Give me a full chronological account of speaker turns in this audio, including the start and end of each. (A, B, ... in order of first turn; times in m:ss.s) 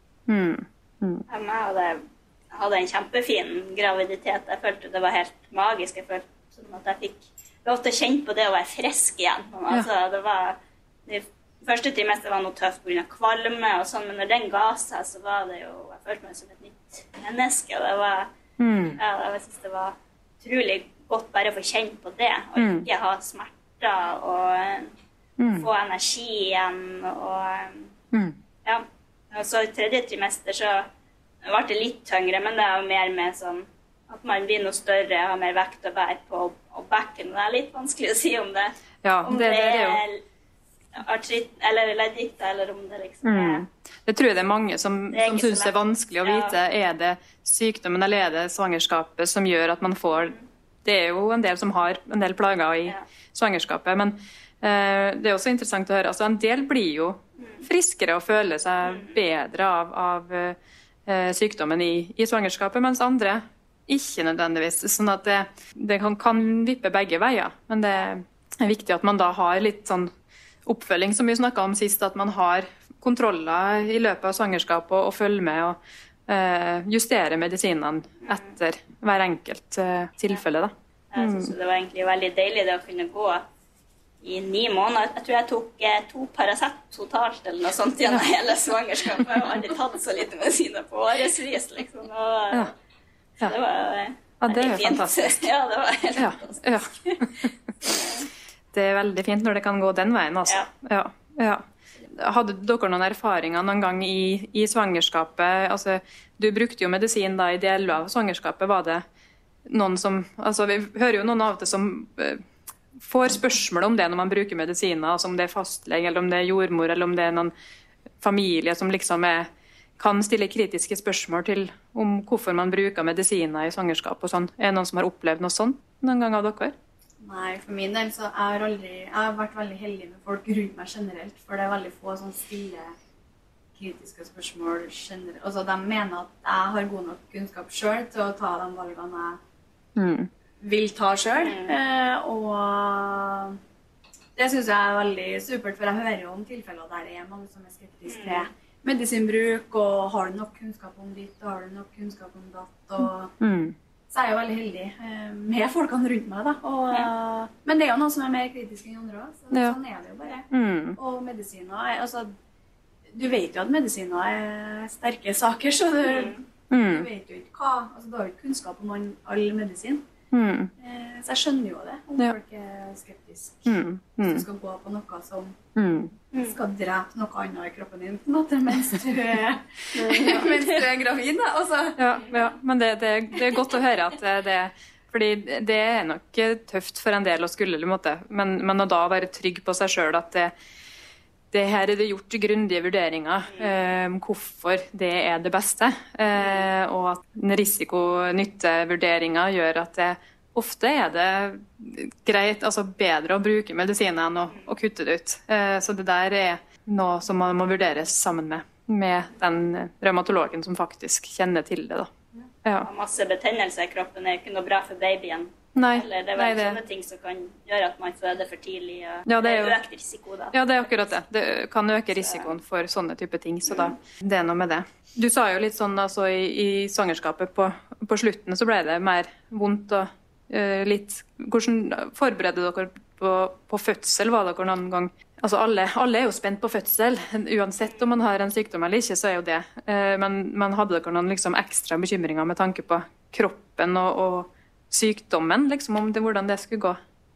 0:00.3-0:01.2 A
0:01.3-0:18.3 B
0:18.6-0:19.0 A
0:19.0-0:24.9 B
0:22.6-0:22.8 A
0:25.4-0:25.7 A
0:25.6-0:27.9 B
0:28.1-0:28.4 A
0:28.6-0:30.9 B
0:31.4-0:40.2 B
0:39.0-0:40.0 A
0:40.9-0:43.6 B
0:43.2-1:10.1 A
0:45.1-0:46.6 B
0:57.4-0:57.6 B
0:58.8-0:59.2 B
1:10.6-1:21.5 A
1:18.2-1:18.5 B
1:21.1-1:23.4 B
1:24.2-1:32.7 B
1:33.4-1:37.3 B
1:34.4-1:35.5 A
1:36.2-1:37.5 A
1:37.8-1:38.3 B
1:38.7-1:49.0 A
1:49.7-1:52.4 A
1:53.0-1:57.5 A
1:58.2-2:06.7 A
2:07.2-2:12.9 C
2:13.8-2:19.4 C
2:20.0-2:20.3 A
2:20.6-2:23.6 C
2:21.4-2:21.8 B
2:24.4-2:33.3 C
2:28.1-2:28.4 B
2:33.4-2:33.8 A
2:34.1-2:42.3 C
2:39.5-2:39.8 A
2:40.5-2:41.0 A
2:43.1-2:50.0 C
2:46.0-2:46.4 B
2:46.7-2:47.1 A
2:50.3-2:50.7 A
2:50.8-2:55.6 C
2:53.6-2:54.4 A
2:55.8-2:56.1 A
2:56.4-3:02.0 C
3:00.0-3:00.6 B
3:02.0-3:10.5 A
3:11.5-3:32.1 A
3:16.4-3:16.6 B
3:32.8-3:41.1 B
3:35.8-3:36.8 A
3:39.3-3:39.8 A
3:40.5-4:07.0 A
3:42.1-3:42.5 B
3:43.7-3:43.9 B